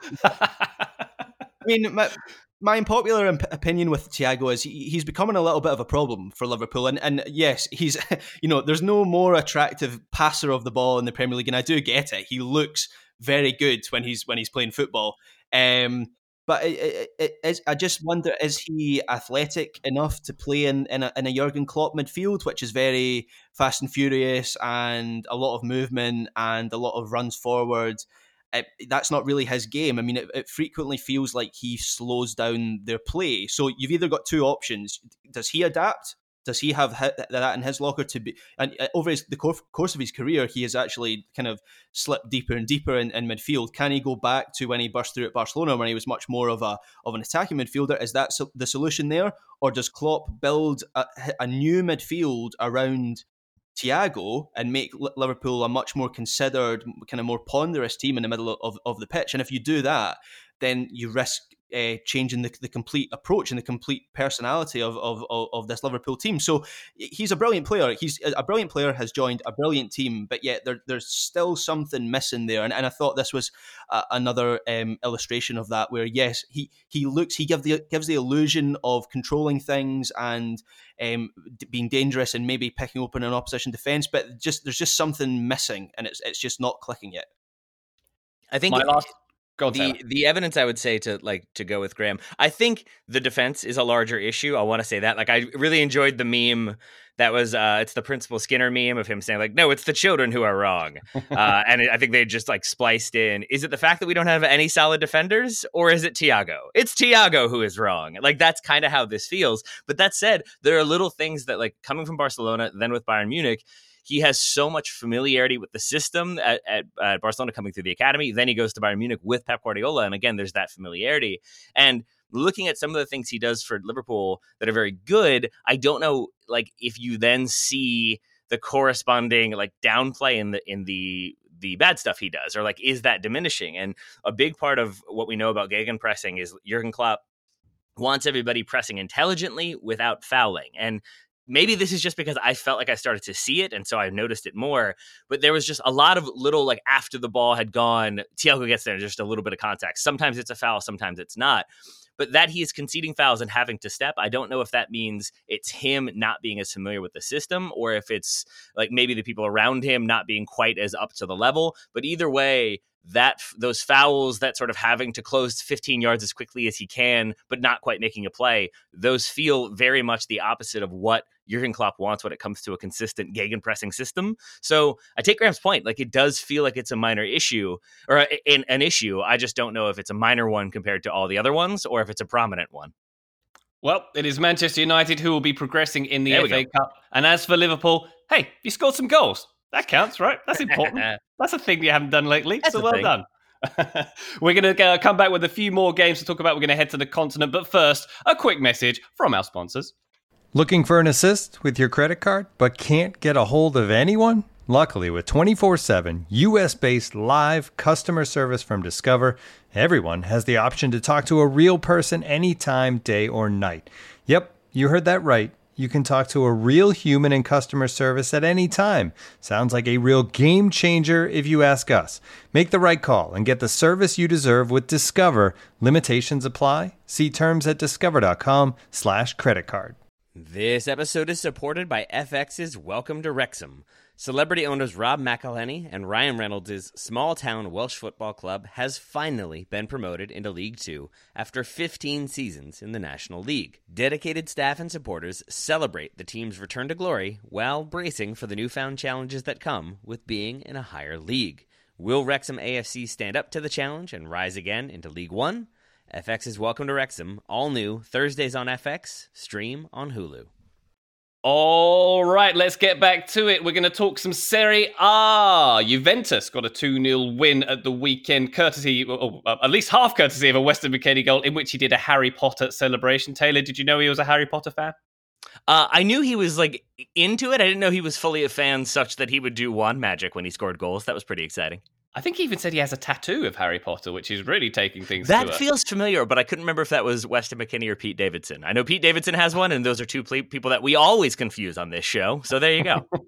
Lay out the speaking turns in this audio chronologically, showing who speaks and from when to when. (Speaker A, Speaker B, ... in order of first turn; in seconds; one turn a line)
Speaker A: 1.6-53.2
Speaker A: 53.7-87.3
Speaker B: 88.5-89.1
Speaker C: 88.7-90.0
Speaker B: 89.7-137.2
Speaker B: 138.0-151.7
Speaker B: 152.2-182.9
Speaker C: 183.8-199.9
Speaker B: 186.3-186.6
Speaker B: 192.6-193.1
Speaker D: 200.5-229.9
Speaker E: 230.3-260.5
Speaker C: 261.4-274.9
Speaker B: 275.7-281.8
Speaker C: 282.1-285.6
Speaker B: 285.2-293.0